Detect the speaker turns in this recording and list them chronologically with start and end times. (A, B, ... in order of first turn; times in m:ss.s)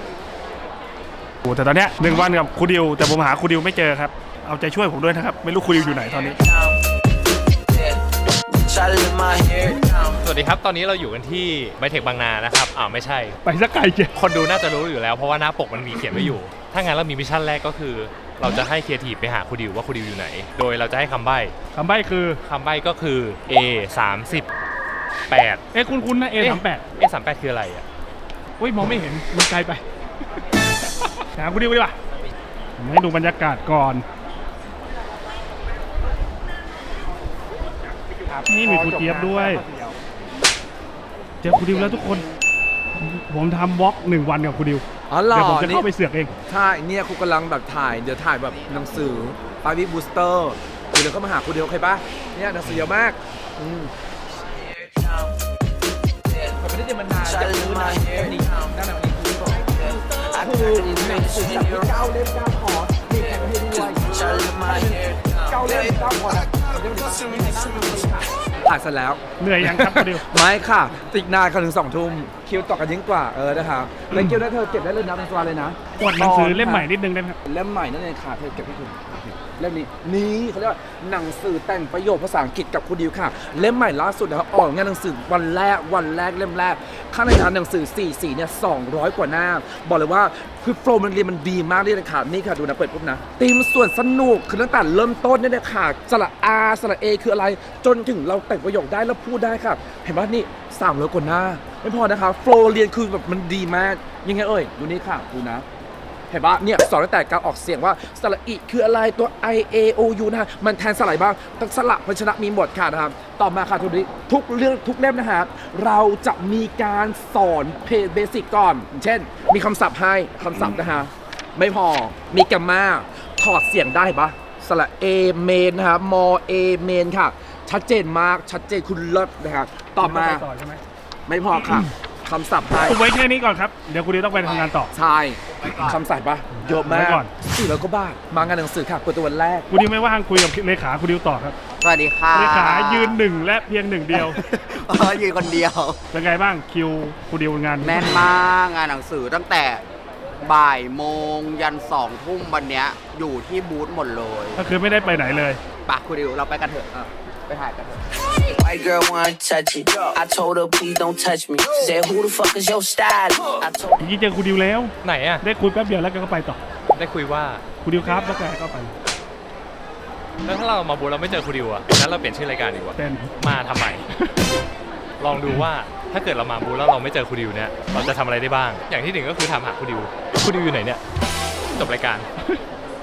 0:01.4-0:06.4 A
0:08.5-0:10.0 B
0:10.2-0:13.4 C
0:13.4-0:14.1 A
0:14.1-0:21.6 C
0:21.7-0:22.4 A
0:22.4-0:24.5 C
0:25.3-0:25.6 C
0:25.7-0:26.8 A
0:26.4-0:27.8 C
0:28.6-0:29.8 A
0:31.3-0:32.0 A
0:32.8-0:34.0 A
0:38.4-0:39.6 A
0:38.7-0:39.2 D
0:41.4-0:42.3 A
0:43.0-0:46.3 A
0:45.1-0:45.8 D
0:46.5-0:53.9 D
0:56.3-0:56.6 B
0:56.6-1:16.9 D
0:57.2-0:58.4 B
0:59.8-1:01.9 B
1:03.2-1:07.8 B
1:09.4-1:10.2 A
1:16.0-1:17.4 A
1:17.4-1:45.6 D
1:46.3-2:10.4 D
2:10.0-2:10.8 A
2:11.3-2:13.0 D
2:12.8-2:14.9 A
2:14.4-2:14.7 E
2:14.9-2:19.7 D
2:15.6-2:16.0 E
2:16.6-2:17.3 A
2:19.7-2:21.6 A
2:21.8-2:23.2 E
2:22.3-2:24.4 A
2:24.1-2:26.0 E
2:26.1-2:28.2 A
2:27.8-2:29.8 E
2:30.4-2:34.6 E
2:34.6-2:35.6 A
2:35.9-2:38.0 E
2:38.5-2:44.1 B
2:44.0-2:46.6 A
2:45.0-2:45.4 C
2:46.9-2:47.6 C
2:47.8-2:48.9 A
2:50.4-2:54.0 C
2:52.9-2:53.3 A
2:55.2-3:01.0 C
3:01.8-3:02.3 C